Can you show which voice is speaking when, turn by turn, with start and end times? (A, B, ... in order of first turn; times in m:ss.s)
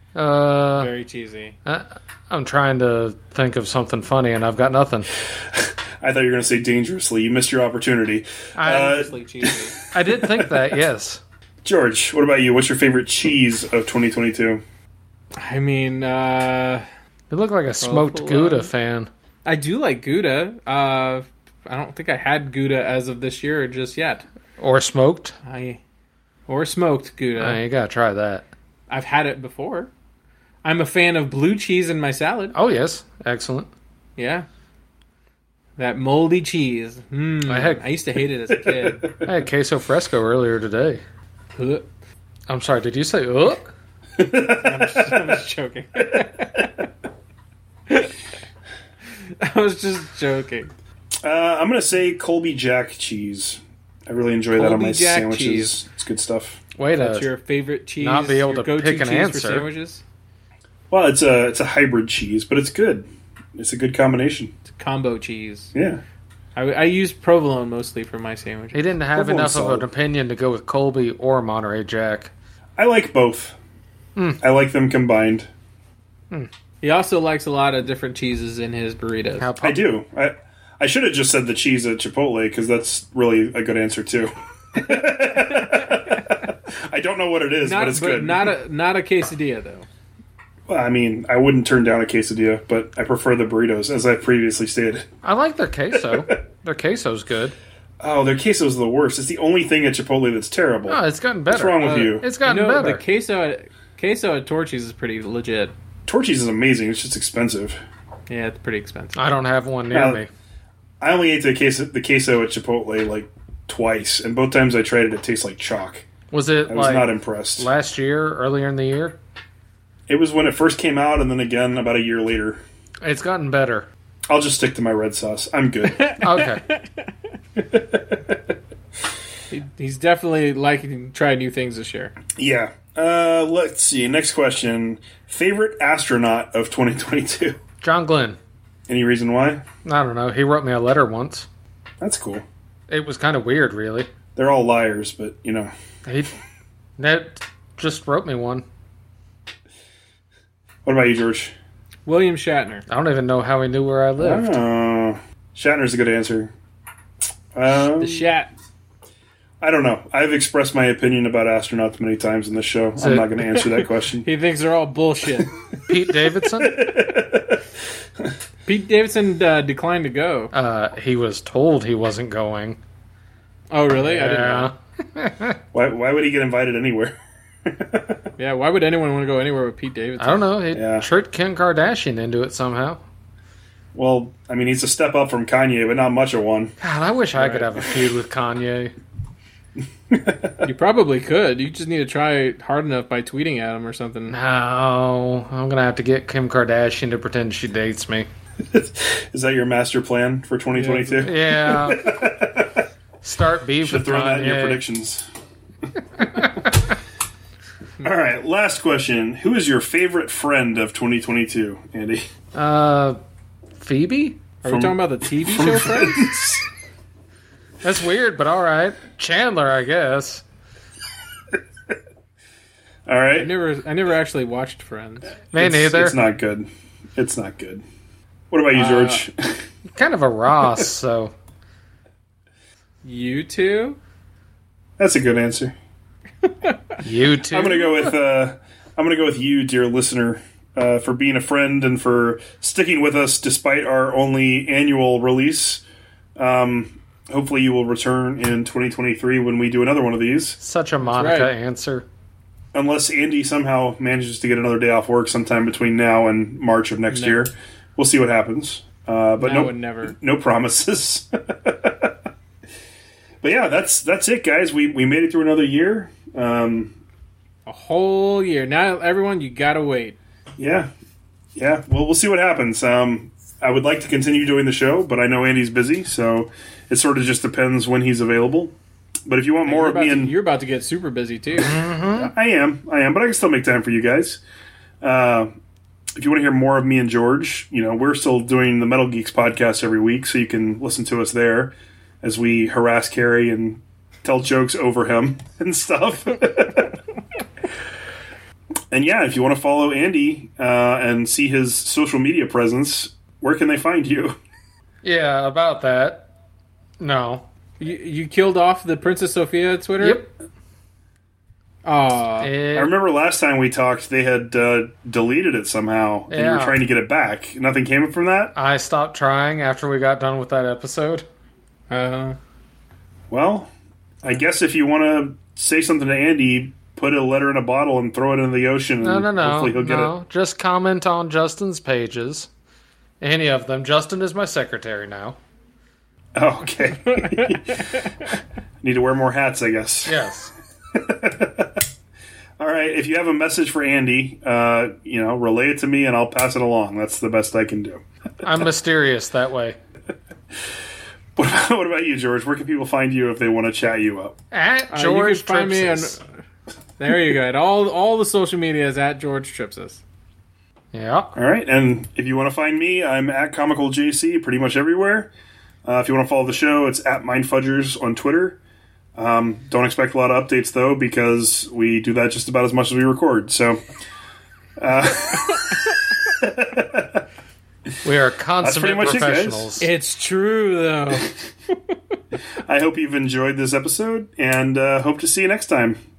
0:00.1-0:00.9 A
0:00.8-0:01.6 B
0:01.6-0:05.1 A
0:05.5-0:09.6 C
0:08.6-0:09.0 A
0:08.6-0:09.8 B
0:09.9-0:11.2 A
0:10.1-0:10.6 C
0:11.6-0:14.6 C
0:15.4-0:16.8 B
0:17.3-0:19.1 A
0:17.8-0:18.7 B
0:19.4-0:24.2 B
0:24.6-0:25.3 A
0:25.4-0:25.8 B
0:26.5-0:27.6 B
0:27.4-0:28.5 A
0:28.9-0:29.9 B
0:30.6-0:32.6 B
0:32.5-0:33.7 A
0:34.2-0:34.4 B
0:35.8-0:39.1 B
0:37.5-0:37.8 A
0:39.2-0:41.0 A
0:41.5-0:41.9 B
0:42.5-0:43.7 A
0:44.2-0:45.4 C
0:44.5-0:46.7 B
0:49.3-0:50.7 B
0:51.2-0:56.6 C
0:54.6-0:55.8 B
0:56.8-0:57.3 A
0:57.0-1:00.0 B
0:58.0-0:59.7 A
1:00.9-1:04.5 C
1:04.7-1:05.7 B
1:05.7-1:06.0 C
1:06.6-1:08.8 B
1:08.7-1:12.3 A
1:09.1-1:09.8 C
1:12.8-1:13.6 C
1:14.4-1:15.5 C
1:16.8-1:19.5 B
1:19.4-1:19.8 A
1:19.6-1:28.5 C
1:24.8-1:26.4 B
1:27.6-1:29.8 B
1:30.7-1:35.1 C
1:35.2-1:37.6 A
1:36.1-1:36.4 C
1:38.0-1:41.0 C
1:40.9-1:43.0 A
1:41.5-1:42.2 C
1:41.8-1:45.7 B
1:46.0-1:47.8 C
1:48.3-1:49.2 B
1:49.2-1:50.3 A
1:49.9-1:50.2 C
1:51.0-1:56.0 C
1:56.3-1:59.2 A
1:56.7-1:57.7 C
2:00.1-2:02.6 C
2:03.0-2:03.9 A
2:04.3-2:06.1 C
2:05.8-2:07.0 B
2:06.2-2:06.6 A
2:07.6-2:08.2 C
2:09.5-2:12.1 B
2:12.4-2:17.6 C
2:17.8-2:18.4 A
2:18.9-2:19.6 C
2:19.8-2:21.5 A
2:22.0-2:22.4 C
2:22.9-2:24.1 A
2:24.4-2:25.7 C
2:26.0-2:26.3 A
2:27.0-2:28.6 A
2:30.8-2:31.5 C
2:32.0-2:32.8 B
2:32.9-2:34.6 A
2:34.2-2:36.5 C
2:37.6-2:38.3 C
2:37.9-2:38.5 B
2:39.6-2:44.3 C
2:43.0-2:43.3 A
2:44.2-2:45.5 B
2:45.9-2:46.9 A
2:46.4-2:47.6 C
2:48.6-2:50.5 B
2:50.5-2:52.8 A
2:53.7-2:54.7 B
2:54.0-2:55.6 A
2:55.7-2:57.1 C
2:57.6-2:58.1 C
2:58.4-3:00.4 B
3:00.2-3:03.0 A
3:00.7-3:01.1 C
3:03.9-3:06.7 C
3:06.8-3:08.9 A
3:07.3-3:07.7 B
3:10.1-3:10.5 C
3:10.6-3:14.4 B
3:14.3-3:18.3 A
3:18.7-3:22.8 C
3:20.7-3:21.3 B
3:21.2-3:22.3 A
3:23.2-3:24.8 A
3:23.8-3:25.3 C
3:26.3-3:26.9 A
3:28.0-3:32.2 C
3:32.5-3:33.2 A
3:33.8-3:34.4 A
3:34.6-3:36.4 B
3:34.6-3:36.6 C
3:37.8-3:40.4 A
3:43.1-3:43.5 C
3:43.4-3:45.3 B
3:45.5-3:46.2 A
3:45.6-3:47.8 C
3:48.5-3:49.3 C
3:48.7-3:49.2 B
3:49.9-3:51.3 A
3:53.0-3:54.0 B
3:55.0-3:55.7 C
3:56.4-3:56.9 B
3:57.0-3:57.9 A
3:57.5-4:05.8 C
4:06.4-4:10.6 C
4:10.6-4:12.0 A
4:11.0-4:11.5 B
4:12.7-4:22.1 C
4:17.1-4:17.5 B
4:19.4-4:20.1 B
4:23.4-4:26.9 C
4:27.6-4:30.2 B
4:30.6-4:30.9 C
4:31.6-4:38.7 C
4:39.3-4:40.3 C
4:39.6-4:41.8 B
4:41.6-4:42.3 A
4:42.1-4:44.4 C
4:45.0-4:45.5 C
4:46.2-4:56.9 C
4:58.9-5:04.3 C
5:05.0-5:06.3 A
5:07.0-5:07.4 A
5:07.8-5:10.3 B
5:10.0-5:10.3 A
5:11.8-5:12.5 B
5:12.4-5:12.9 A
5:12.7-5:18.5 C
5:16.3-5:16.8 A
5:18.6-5:21.3 A
5:21.9-5:22.4 B
5:23.3-5:23.7 C
5:24.2-5:30.1 C
5:29.0-5:32.5 A
5:33.2-5:35.4 A
5:36.3-5:37.8 C
5:37.1-5:38.0 B
5:38.8-5:40.2 C
5:40.0-5:40.5 A
5:40.9-5:41.8 C
5:42.6-5:48.0 C
5:48.4-5:49.8 A
5:51.4-5:54.4 C
5:54.5-5:56.2 A
5:54.9-5:56.2 B
5:57.0-6:00.0 B
6:00.9-6:01.3 A
6:01.4-6:05.3 C
6:05.8-6:08.6 C
6:09.2-6:13.8 C
6:14.8-6:15.8 C
6:16.4-6:17.2 C
6:18.0-6:19.9 A
6:18.6-6:19.7 C
6:19.8-6:21.3 B
6:22.6-6:26.0 C